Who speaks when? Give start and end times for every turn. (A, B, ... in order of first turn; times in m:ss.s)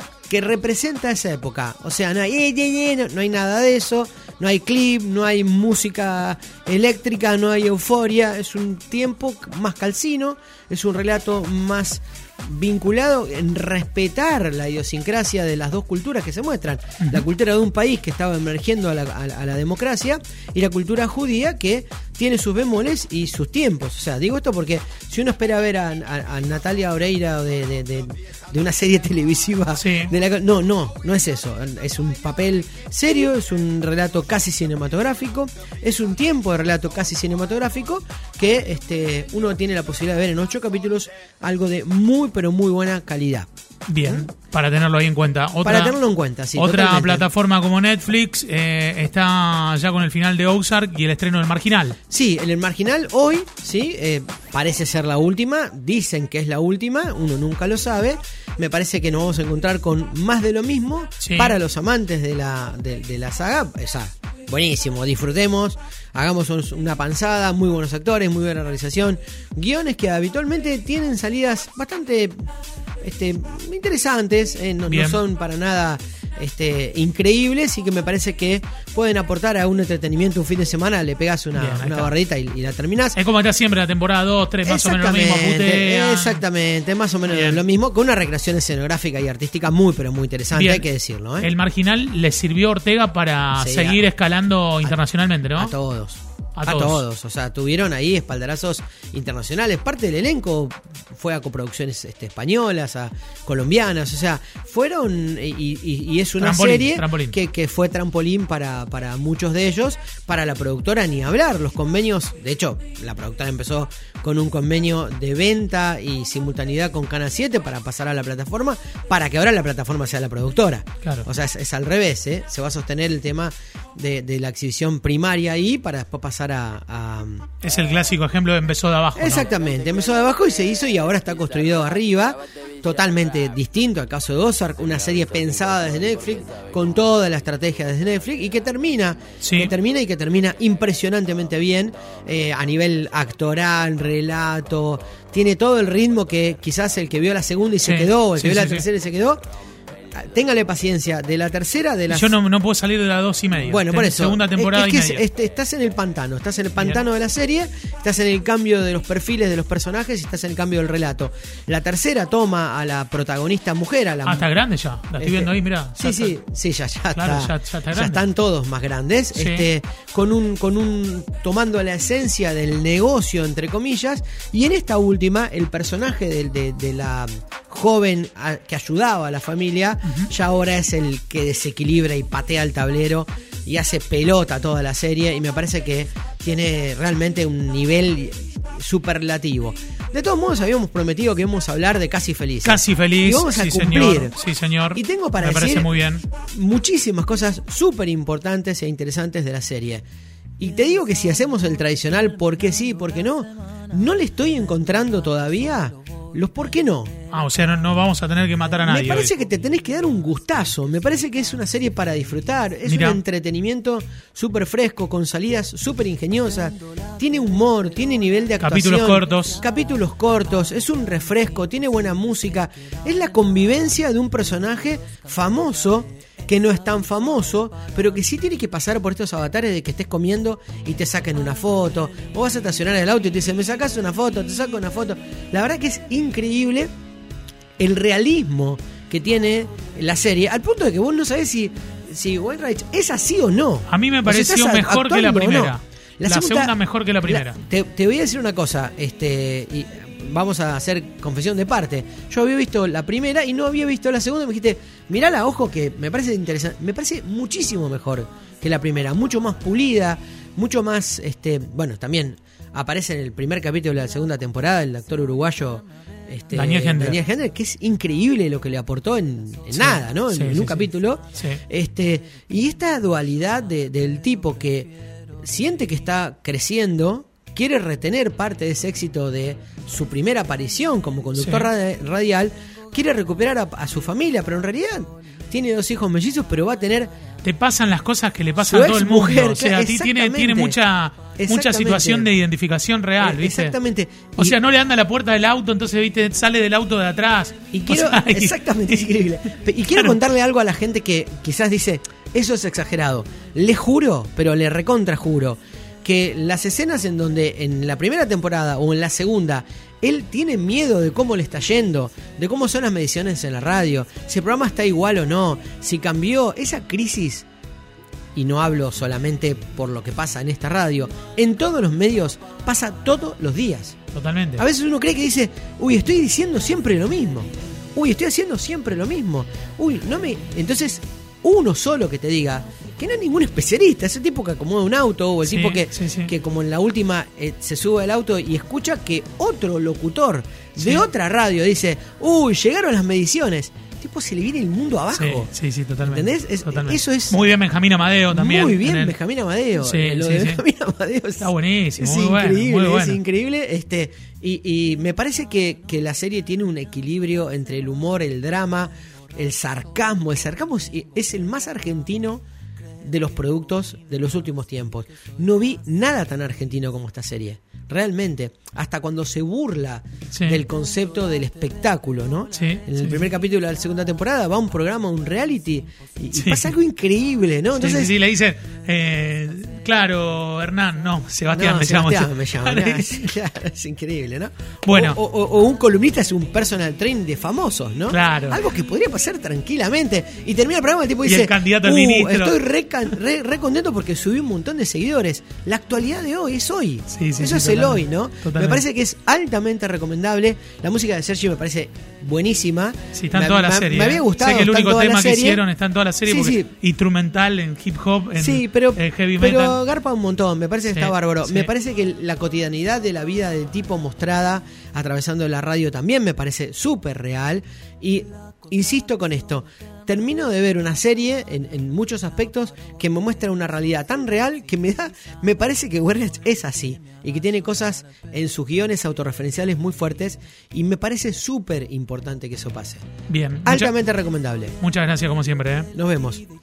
0:00.3-0:43.5 A
0:17.0-0:17.2 B
0:29.8-0:30.1 B
0:43.9-0:46.0 B
0:44.0-0:44.3 A
0:45.6-0:47.3 A
0:46.6-0:52.0 B
0:52.1-1:12.5 A
1:01.2-1:01.6 B
1:13.0-1:23.2 A
1:14.9-1:15.2 B
1:21.6-1:22.1 B
1:23.2-1:26.4 B
1:24.6-1:31.5 A
1:27.3-1:27.6 B
1:30.5-1:30.9 B
1:31.4-1:35.8 B
1:33.6-1:34.1 A
1:35.6-2:07.5 A
1:36.6-1:37.0 B
1:46.4-1:47.4 B
2:07.6-2:09.5 B
2:09.2-2:29.4 A
2:19.4-2:19.7 B
2:27.8-2:28.8 B
2:30.1-2:32.4 A
2:32.1-2:35.2 B
2:33.5-2:44.5 A
2:36.8-2:37.0 B
2:44.2-2:46.4 B
2:45.2-3:14.4 A
2:47.1-2:48.2 B
2:49.3-2:49.7 B
3:12.6-3:16.2 B
3:15.0-3:20.0 A
3:20.6-3:27.1 A
3:27.3-3:29.3 B
3:28.8-3:56.9 A
3:32.9-3:33.2 B
3:38.6-3:39.6 B
3:57.8-4:06.8 A
4:03.9-4:07.6 B
4:07.3-4:47.1 A
4:26.5-4:27.2 B
4:29.7-4:31.6 B
4:41.4-4:41.7 B
4:47.4-4:53.8 B
4:48.6-4:50.8 A
4:51.4-4:52.3 A
4:53.2-4:54.6 A
4:54.4-4:59.1 B
4:57.7-5:17.5 A
4:59.9-5:00.2 B
5:18.4-5:24.0 A
5:24.1-5:24.7 B
5:24.6-5:45.5 A
5:35.4-5:36.3 B
5:40.8-5:41.1 B
5:45.1-5:49.2 B
5:46.0-5:47.4 A
5:48.3-6:02.4 A
5:49.8-5:50.6 B
5:51.4-5:53.2 B
6:03.0-6:18.2 A
6:10.3-6:10.6 B
6:12.5-6:13.3 B
6:16.3-6:16.7 B
6:17.8-6:23.3 B
6:21.5-6:45.6 A
6:24.8-6:25.2 B
6:28.1-6:28.6 B
6:31.2-6:32.6 B
6:37.1-6:38.8 B
6:43.1-6:49.8 B
6:46.3-6:46.7 A
6:48.4-7:13.1 A
6:50.9-6:51.7 B
7:13.3-7:13.9 B
7:13.6-7:14.8 A
7:14.8-7:15.9 B
7:16.0-7:16.4 A